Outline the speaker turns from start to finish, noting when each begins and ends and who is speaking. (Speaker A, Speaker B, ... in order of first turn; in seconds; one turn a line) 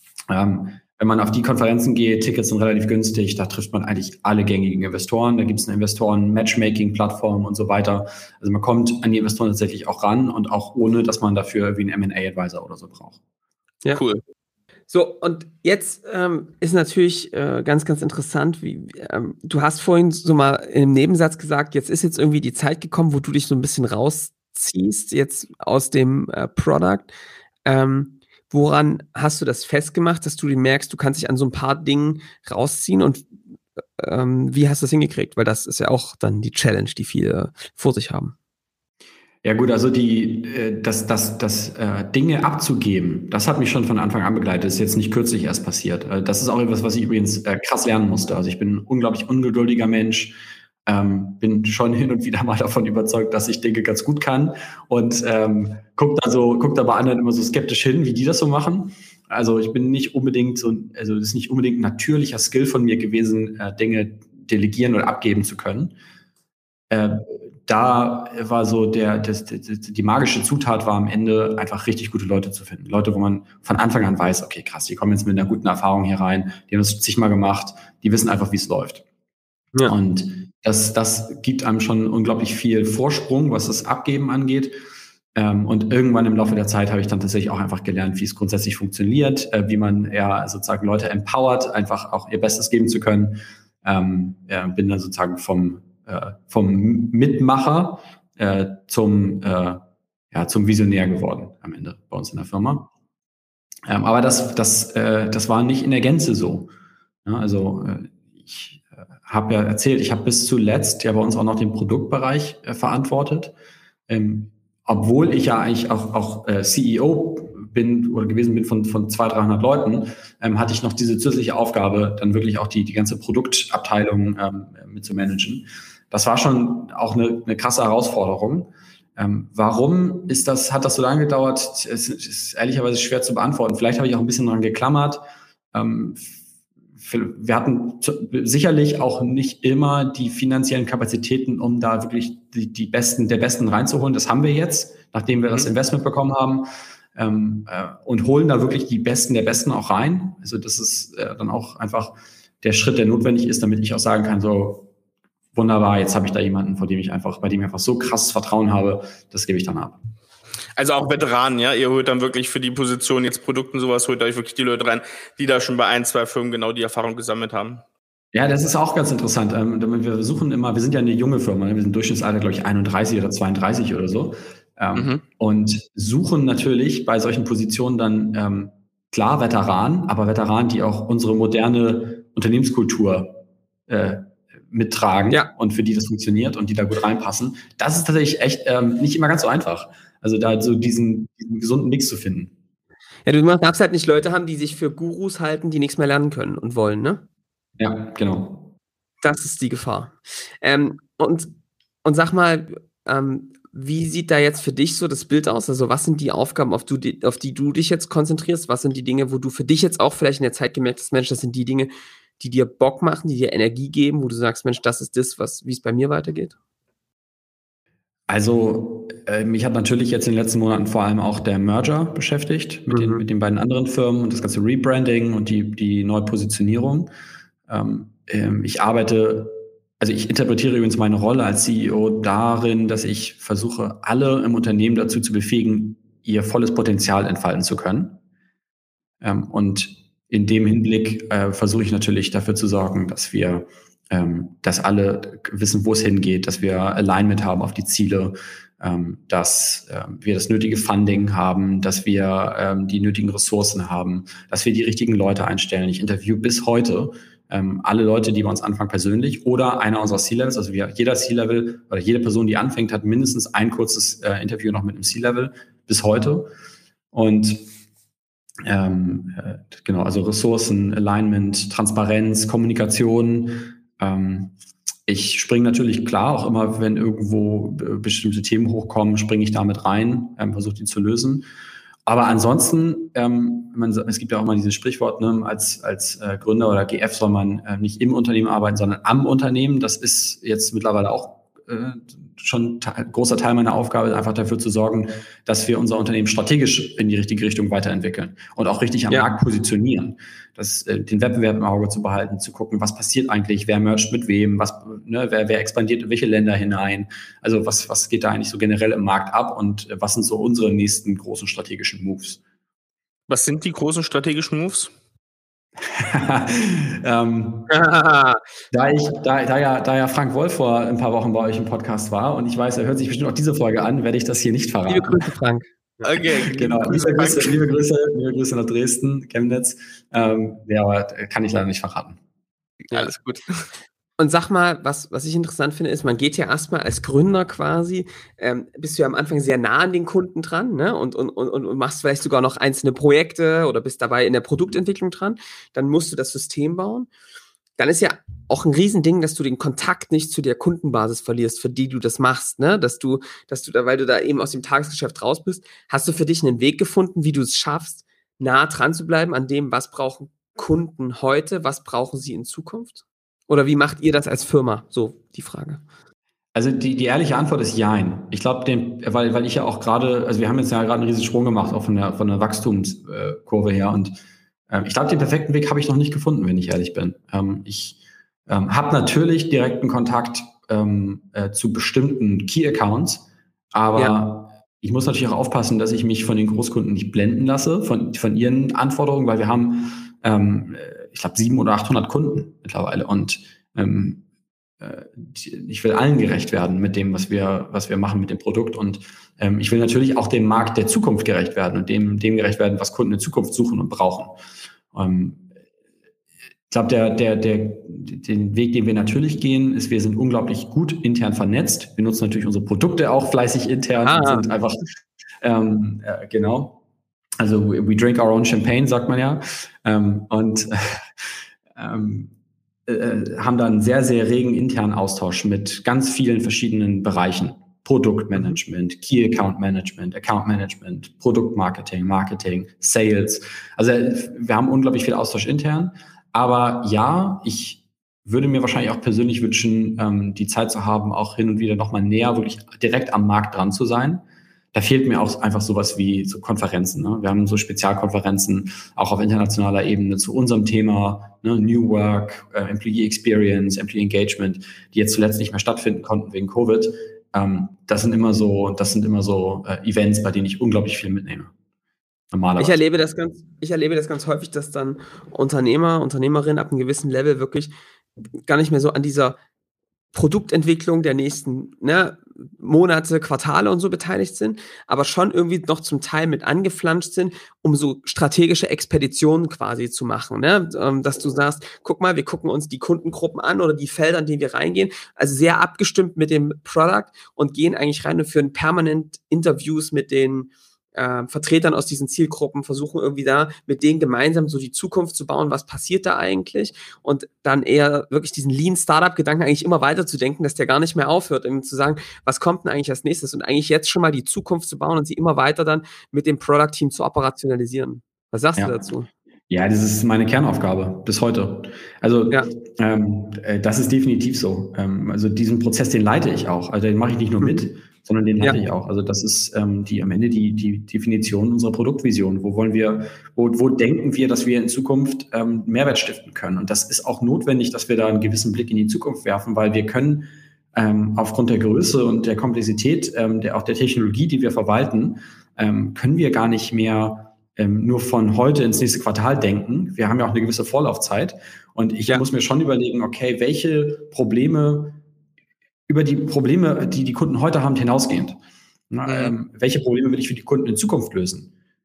Speaker A: 0.3-13.2
Speaker B: 13.9-14.2
Speaker C: 14.9-27.1
Speaker C: 27.6-33.3
Speaker C: 34.0-38.4
Speaker A: 39.4-65.9
Speaker A: 66.9-79.0
Speaker A: 79.9-84.8
Speaker A: 85.3-102.9
Speaker A: 103.9-106.7
Speaker A: 107.2-113.5
Speaker A: 114.1-136.3
Speaker A: 137.0-154.9
Speaker A: 155.5-160.0
Speaker B: 160.8-167.8
Speaker A: 168.3-192.5
Speaker B: 175.0-175.2
Speaker C: 193.3-197.2
Speaker A: 197.8-198.7
Speaker C: 199.2-216.6
Speaker A: 218.3-227.1
Speaker C: 222.9-223.2
Speaker A: 227.7-238.2
Speaker A: 239.2-266.5
Speaker A: 267.1-267.7
Speaker A: 268.6-274.6
Speaker A: 275.1-281.5
Speaker A: 282.1-312.4
Speaker B: 313.3-314.9
Speaker A: 315.8-317.7
Speaker C: 317.7-318.4
Speaker A: 318.7-325.3
Speaker C: 324.9-326.1
Speaker B: 326.0-327.6
Speaker A: 326.5-332.2
Speaker B: 332.9-333.4
Speaker C: 334.2-347.1
Speaker C: 347.8-365.8
Speaker A: 366.5-374.2
Speaker A: 374.7-394.2
Speaker A: 394.8-404.4
Speaker A: 404.9-405.4
Speaker A: 406.7-414.9
Speaker C: 414.0-414.5
Speaker A: 415.4-416.8
Speaker A: 417.4-422.3
Speaker A: 422.9-461.5
Speaker A: 462.3-462.8
Speaker C: 462.6-467.7
Speaker C: 468.4-469.4
Speaker C: 470.1-509.1
Speaker A: 509.5-545.0
Speaker A: 545.9-548.4
Speaker A: 548.9-551.5
Speaker B: 549.1-549.3